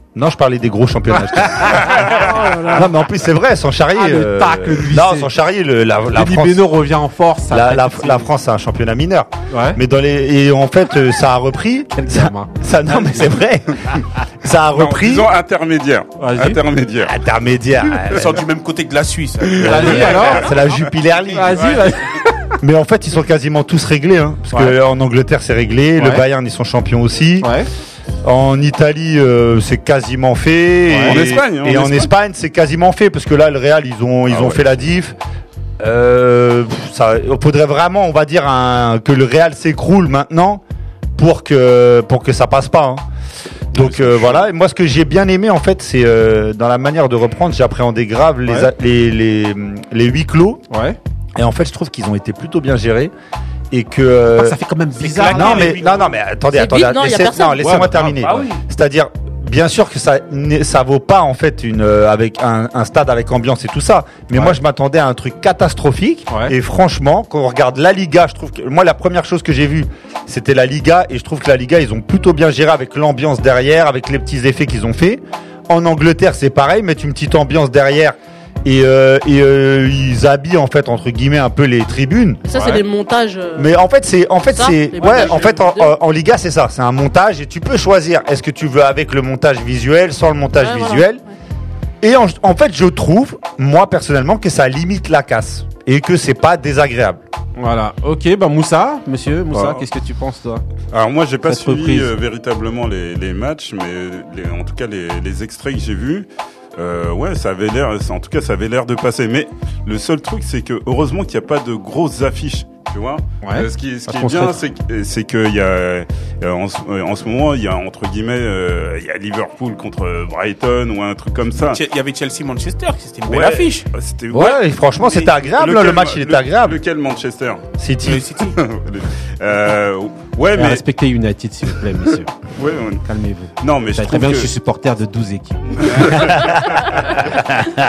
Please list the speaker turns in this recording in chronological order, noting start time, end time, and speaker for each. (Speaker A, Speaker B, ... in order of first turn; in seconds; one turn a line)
Speaker A: 0.1-6.7
Speaker B: 1.1-1.4
Speaker C: 2.1-2.9
Speaker B: 3.9-5.3
Speaker B: 6.1-8.3
Speaker A: 7.5-13.9
Speaker B: 9.5-9.8
Speaker B: 11.9-13.4
Speaker A: 14.4-15.3
Speaker D: 14.7-17.2
Speaker B: 16.2-16.6
Speaker A: 17.0-18.4
Speaker E: 18.1-20.6
Speaker A: 19.6-21.6
Speaker D: 19.6-21.9
Speaker B: 19.6-20.4
Speaker B: 21.3-22.3
Speaker A: 22.6-27.5
Speaker B: 24.5-24.8
Speaker B: 26.0-26.2
Speaker B: 27.4-27.7
Speaker A: 28.2-35.1
Speaker B: 30.9-31.2
Speaker D: 31.0-32.1
Speaker D: 34.3-34.8
Speaker A: 35.8-40.6
Speaker A: 41.1-43.0
Speaker A: 43.7-50.6
Speaker B: 43.8-44.4
Speaker B: 50.7-51.0
Speaker A: 51.4-53.1
Speaker A: 53.7-54.6
Speaker B: 54.3-55.8
Speaker E: 55.0-56.2
Speaker A: 55.3-82.8
Speaker C: 56.5-57.7
Speaker B: 57.6-58.1
Speaker E: 58.0-58.6
Speaker B: 66.3-66.5
Speaker C: 82.5-83.7
Speaker A: 83.5-91.2
Speaker C: 84.5-85.9
Speaker C: 90.5-91.2
Speaker A: 92.0-97.2
Speaker B: 97.5-100.6
Speaker D: 99.5-99.8
Speaker D: 100.9-121.8
Speaker B: 101.4-102.1
Speaker B: 113.4-114.6
Speaker E: 121.6-123.9
Speaker D: 123.3-127.7
Speaker A: 124.3-126.8
Speaker A: 127.8-128.2
Speaker E: 128.0-128.6
Speaker D: 128.4-130.8
Speaker B: 130.6-132.3
Speaker D: 132.6-133.0
Speaker B: 133.0-136.3
Speaker D: 133.6-134.5
Speaker D: 135.8-137.4
Speaker A: 136.3-136.6